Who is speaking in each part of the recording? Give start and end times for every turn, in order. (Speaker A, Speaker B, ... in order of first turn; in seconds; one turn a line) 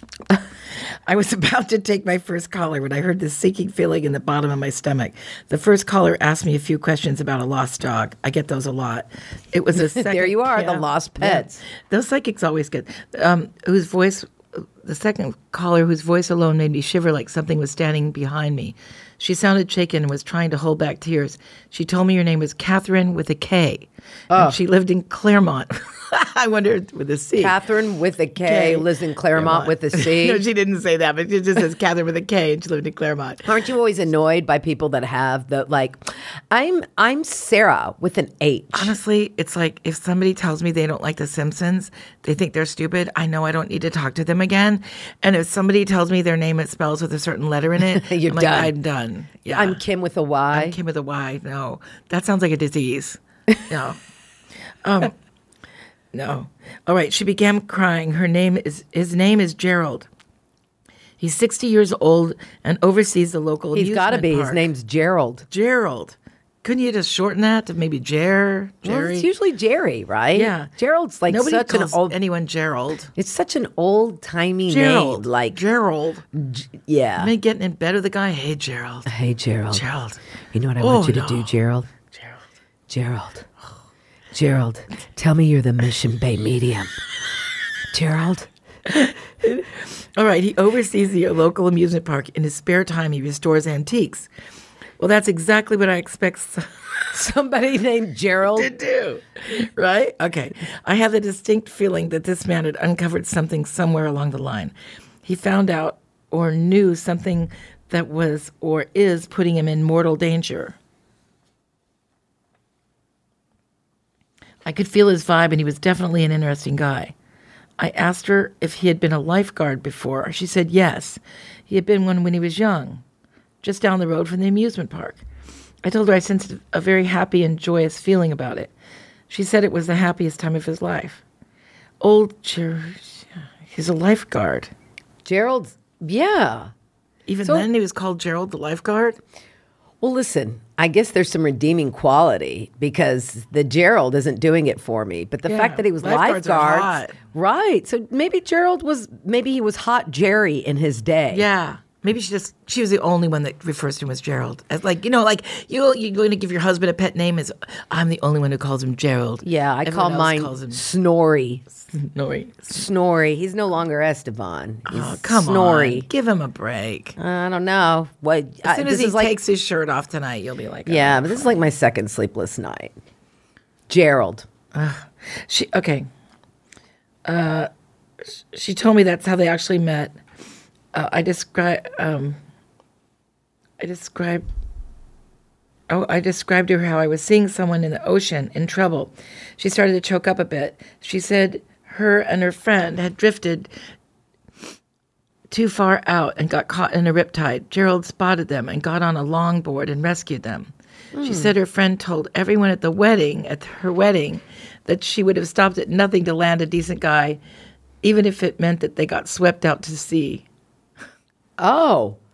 Speaker A: 1.1-27.6
Speaker B: 9.8-11.6
Speaker B: 24.3-24.6
Speaker B: 27.4-30.4
Speaker A: 28.4-33.6
Speaker B: 33.5-39.0
Speaker A: 38.7-49.8
Speaker B: 47.8-48.7
Speaker B: 49.5-50.8
Speaker A: 50.5-54.0
Speaker A: 54.9-55.1
Speaker A: 56.1-60.1
Speaker A: 61.2-64.7
Speaker B: 63.7-65.5
Speaker A: 65.5-69.3
Speaker B: 68.8-72.2
Speaker A: 70.3-70.7
Speaker A: 71.3-73.1
Speaker B: 73.2-75.6
Speaker A: 74.7-76.2
Speaker B: 76.3-77.3
Speaker A: 77.2-79.1
Speaker B: 79.1-79.8
Speaker A: 79.7-80.2
Speaker B: 80.5-81.9
Speaker A: 80.8-81.5
Speaker B: 82.9-83.5
Speaker B: 84.3-86.9
Speaker B: 87.9-88.5
Speaker A: 88.9-94.3
Speaker A: 95.0-96.7
Speaker B: 97.1-98.7
Speaker A: 98.5-104.7
Speaker A: 105.2-110.8
Speaker A: 114.7-117.1
Speaker A: 117.8-123.0
Speaker A: 123.6-125.2
Speaker A: 125.8-128.7
Speaker A: 129.3-131.2
Speaker A: 132.0-134.7
Speaker B: 135.2-136.7
Speaker A: 137.3-139.2
Speaker B: 140.0-151.4
Speaker A: 145.5-147.2
Speaker A: 151.3-160.8
Speaker B: 159.4-161.6
Speaker A: 161.9-162.7
Speaker B: 162.7-166.1
Speaker A: 164.9-167.2
Speaker B: 167.2-169.3
Speaker A: 168.7-171.6
Speaker B: 170.9-172.9
Speaker B: 173.9-174.5
Speaker A: 174.7-176.1
Speaker A: 177.3-177.7
Speaker A: 178.4-180.1
Speaker A: 180.9-182.4
Speaker A: 183.8-184.5
Speaker A: 185.9-193.7
Speaker A: 195.5-207.4
Speaker B: 201.2-201.5
Speaker A: 208.0-210.5
Speaker B: 211.6-212.2